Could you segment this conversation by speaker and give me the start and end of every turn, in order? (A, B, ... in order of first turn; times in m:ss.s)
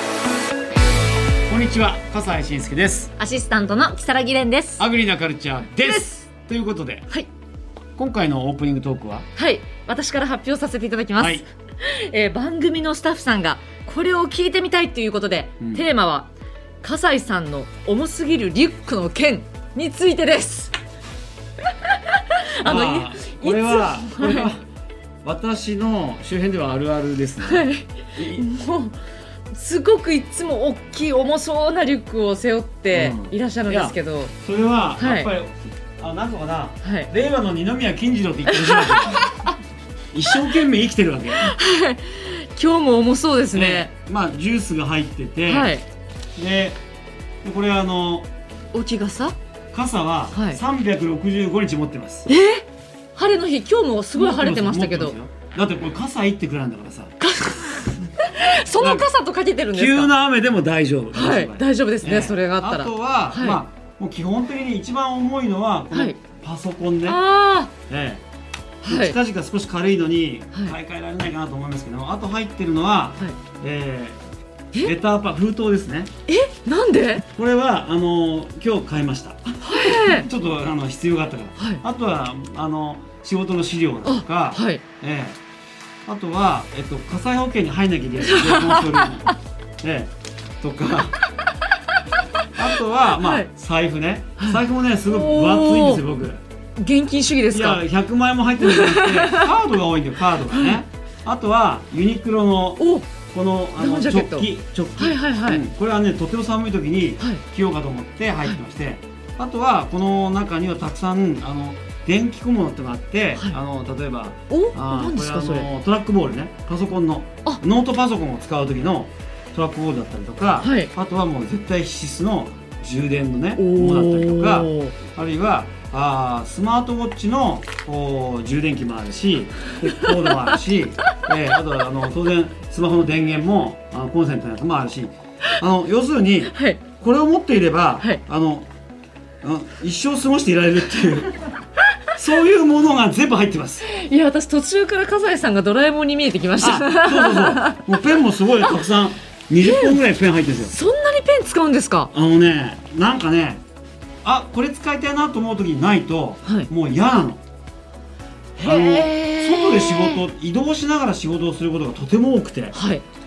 0:01.5-0:03.1 A
0:03.2-0:04.8 B
0:04.8-0:07.1 A
0:05.7-0:06.1 B
0:08.0-0:09.3 A
0:09.4-0:16.3 B
0:11.2-0:11.4 A
0:16.8-0:20.7 B
0:21.9-0:24.5 B
0:22.6-0:24.6 A
0:25.2-0:27.6 A
0:27.4-0:29.0 B
0:28.2-0:28.5 A
0:29.5-0:34.3 B
0:32.9-0:39.2 A
0:35.0-0:35.3 B
0:36.8-0:37.1 B
0:38.5-0:39.5 B
0:40.1-0:41.6 A
0:40.3-0:40.6 B
0:41.4-0:43.9 B
0:43.5-0:45.7 A
0:45.4-0:45.8 B
0:46.4-0:46.8 A
0:47.4-0:48.3 A
0:48.7-0:49.4 B
0:49.7-0:52.3 A
0:50.3-0:50.6 B
0:52.3-0:52.6 B
0:53.2-0:55.2 B
0:54.2-0:57.1 A
0:57.2-1:00.1 B
0:58.8-0:59.1 A
0:59.7-1:07.2 A
1:01.1-1:03.6 B
1:05.9-1:06.2 B
1:07.0-1:07.7 B
1:07.9-1:08.2 A
1:08.8-1:09.2 B
1:08.8-1:14.2 A
1:14.8-1:16.1 A
1:16.3-1:17.2 B
1:17.3-1:25.4 A
1:19.6-1:20.3 B
1:21.6-1:21.8 B
1:24.0-1:24.8 B
1:26.1-1:31.2 A
1:28.3-1:29.3 B
1:32.5-1:36.4 A
1:33.1-1:33.5 B
1:34.4-1:36.0 B
1:36.8-1:37.8 B
1:37.5-2:18.7 A
1:38.6-1:39.5 B
1:40.5-1:40.8 B
1:42.8-1:43.1 B
1:43.8-1:45.6 B
1:54.5-1:55.7 B
2:00.6-2:00.9 B
2:03.6-2:05.0 B
2:10.2-2:10.5 B
2:16.5-2:16.8 B
2:19.4-2:21.4 A
2:22.1-2:23.9 A
2:23.9-2:27.8 B
2:26.6-2:30.7 A
2:28.6-2:28.9 B
2:29.6-2:30.0 B
2:30.6-2:32.1 B
2:32.1-2:33.6 A
2:34.2-2:37.4 A
2:36.4-2:36.7 B
2:38.6-2:40.2 B
2:38.6-2:42.8 A
2:42.7-2:43.0 B